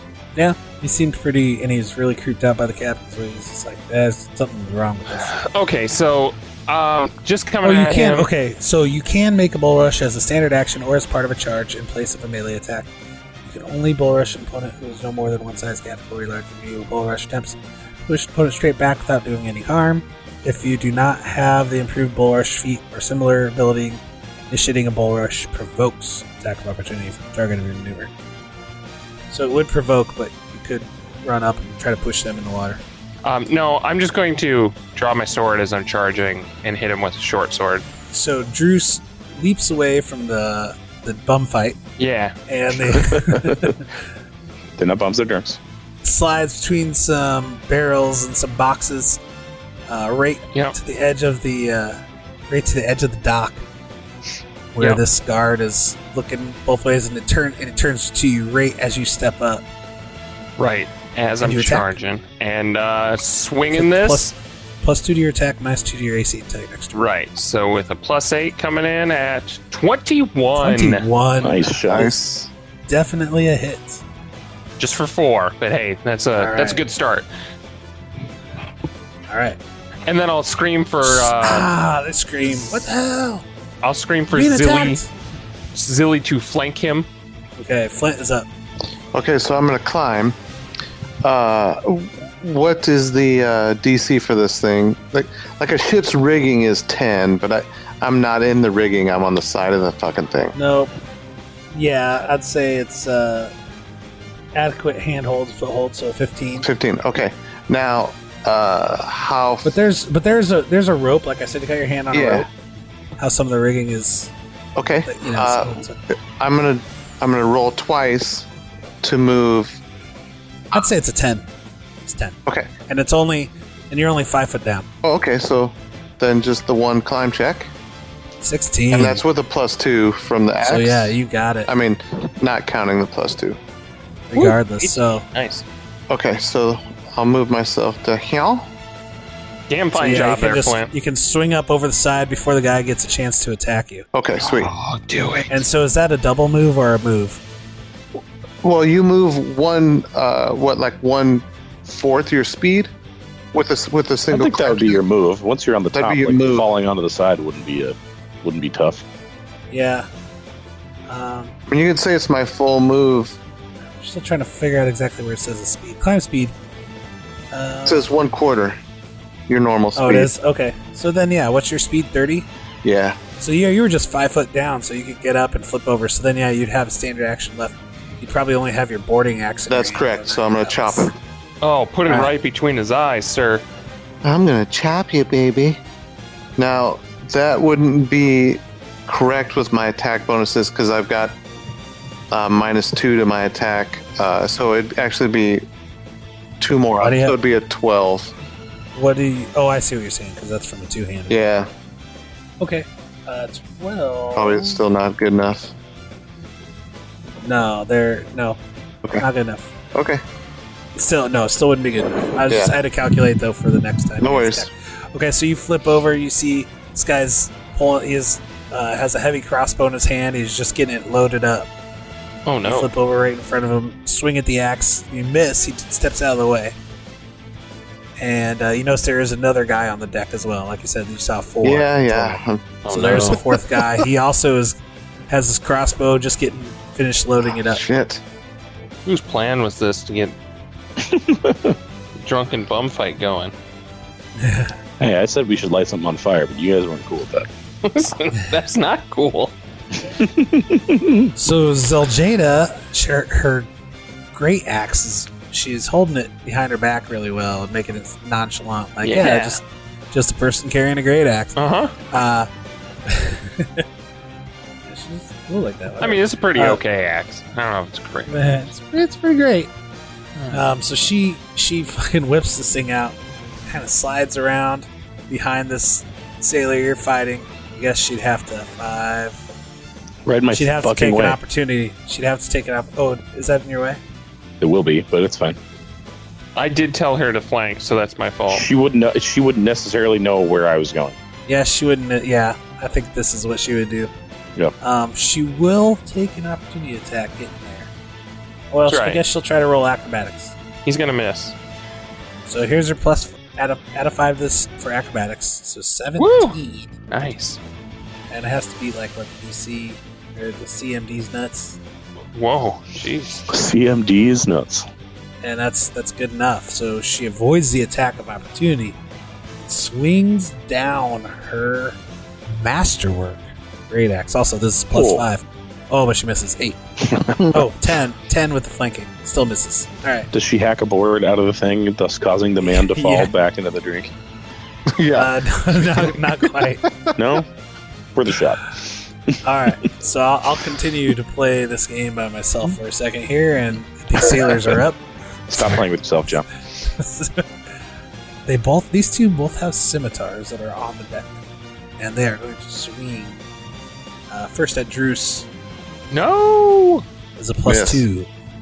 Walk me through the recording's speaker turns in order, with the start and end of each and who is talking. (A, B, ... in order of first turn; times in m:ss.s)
0:00.4-0:05.4 A
0:05.2-0:08.3 B
0:07.6-0:12.9 A
0:13.4-0:28.1 A
0:29.3-0:32.8 A
0:33.2-0:37.8 B
0:38.1-0:41.8 A
0:42.0-0:42.3 B
0:42.5-0:43.9 A
0:42.9-0:43.7 C
0:44.8-0:45.6 C
0:46.0-0:49.2 A
0:49.9-0:52.0 A
0:52.5-0:53.6 A
0:54.8-0:59.6 A
1:00.6-1:04.3 B
1:01.4-1:01.9 A
1:03.7-1:07.0 A
1:06.9-1:11.1 B
1:10.6-1:12.2 A
1:11.4-1:12.1 C
1:11.8-1:12.5 D
1:12.9-1:14.0 A
1:14.8-1:17.3 B
1:16.4-1:16.8 A
1:19.3-1:19.6 A
1:20.1-1:21.7 B
1:21.0-1:23.4 A
1:23.8-1:25.0 B
1:24.3-1:25.1 A
1:25.7-1:27.1 B
1:27.6-1:28.5 A
1:29.1-1:30.4 D
1:31.2-1:40.6 D
1:40.6-1:40.9 A
1:41.7-1:43.5 A
1:44.6-1:46.7 A
1:46.6-1:49.7 D
1:49.6-1:52.5 A
1:52.1-1:52.5 D
1:53.2-1:54.3 A
1:54.8-1:58.5 D
1:55.0-1:56.0 A
1:59.0-1:59.8 D
2:00.7-2:01.5 A
2:02.1-2:04.9 A
2:05.0-2:07.7 D
2:08.4-2:09.2 A
2:08.9-2:11.2 D
2:10.6-2:11.7 A
2:11.7-2:13.6 D
2:14.3-2:15.2 A
2:14.4-2:15.6 B
2:16.1-2:18.7 D
2:19.7-2:20.9 B
2:19.9-2:24.1 A
2:24.1-2:24.7 D
2:24.4-2:25.5 B
2:25.5-2:27.4 A
2:28.6-2:32.9 D
2:33.5-2:35.0 D
2:34.3-2:39.0 C
2:35.9-2:36.7 D
2:39.7-2:40.1 A
2:41.1-2:41.5 A
2:41.7-2:43.4 D
2:43.9-2:46.5 A
2:47.5-2:48.1 A
2:47.9-2:48.8 D
2:49.5-2:50.3 D
2:50.0-2:52.5 A
2:52.8-2:53.2 D
2:53.4-3:01.1 A
2:59.7-3:01.1 D
3:01.6-3:03.6 B
3:04.2-3:05.8 D
3:06.6-3:11.4 D
3:12.3-3:15.6 D
3:16.6-3:18.3 D
3:17.0-3:17.4 A
3:19.0-3:21.5 A
3:21.3-3:21.7 D
3:22.6-3:24.8 A
3:24.3-3:25.7 D
3:27.4-3:28.6 A
3:29.2-3:29.7 A
3:29.9-3:30.2 D
3:31.0-3:41.7 A
3:32.5-3:32.8 D
3:34.2-3:34.7 D
3:42.5-3:42.9 B
3:42.6-3:46.8 A
3:48.2-3:54.8 A
3:51.6-3:53.4 D
3:52.8-3:53.4 B
3:55.3-3:57.8 A
3:57.5-3:58.2 D
3:59.1-4:00.4 B
4:01.0-4:01.8 C
4:02.2-4:03.5 B
4:04.4-4:04.8 A
4:05.0-4:07.5 C
4:07.8-4:09.5 B
4:10.2-4:11.3 C
4:11.4-4:13.7 A
4:14.3-4:21.6 A
4:19.0-4:19.6 B
4:21.6-4:22.0 B
4:22.1-4:22.5 A
4:23.1-4:23.8 A
4:24.8-4:26.8 A
4:26.0-4:28.4 B
4:28.3-4:29.7 A
4:30.4-4:30.6 B
4:30.5-4:39.4 A
4:40.3-4:41.4 C
4:40.5-4:44.0 A
4:44.6-4:45.6 C
4:46.6-4:48.6 B
4:48.5-4:51.2 C
4:51.5-4:54.1 A
4:54.8-4:57.9 A
4:58.7-5:00.6 A
4:58.9-4:59.2 B
5:00.8-5:01.6 B
5:02.5-5:07.0 A
5:06.2-5:06.6 B
5:07.1-5:07.6 B
5:08.3-5:11.8 A
5:12.3-5:13.5 B
5:13.5-5:14.9 C
5:15.4-5:19.0 A
5:19.6-5:26.8 A
5:24.9-5:25.3 C
5:27.3-5:27.6 D
5:27.5-5:30.3 A
5:30.3-5:34.1 C
5:32.6-5:33.3 A
5:34.9-5:36.1 D
5:35.2-5:36.8 A
5:36.8-5:37.1 D
5:37.2-5:37.5 C
5:38.2-5:38.8 C
5:39.4-5:45.0 A
5:45.5-5:46.5 C
5:46.9-5:47.4 A
5:48.5-5:51.4 A
5:52.0-5:53.4 A
5:54.3-5:55.5 A
5:56.1-5:57.0 B
5:57.4-5:58.3 A
5:57.7-5:58.0 D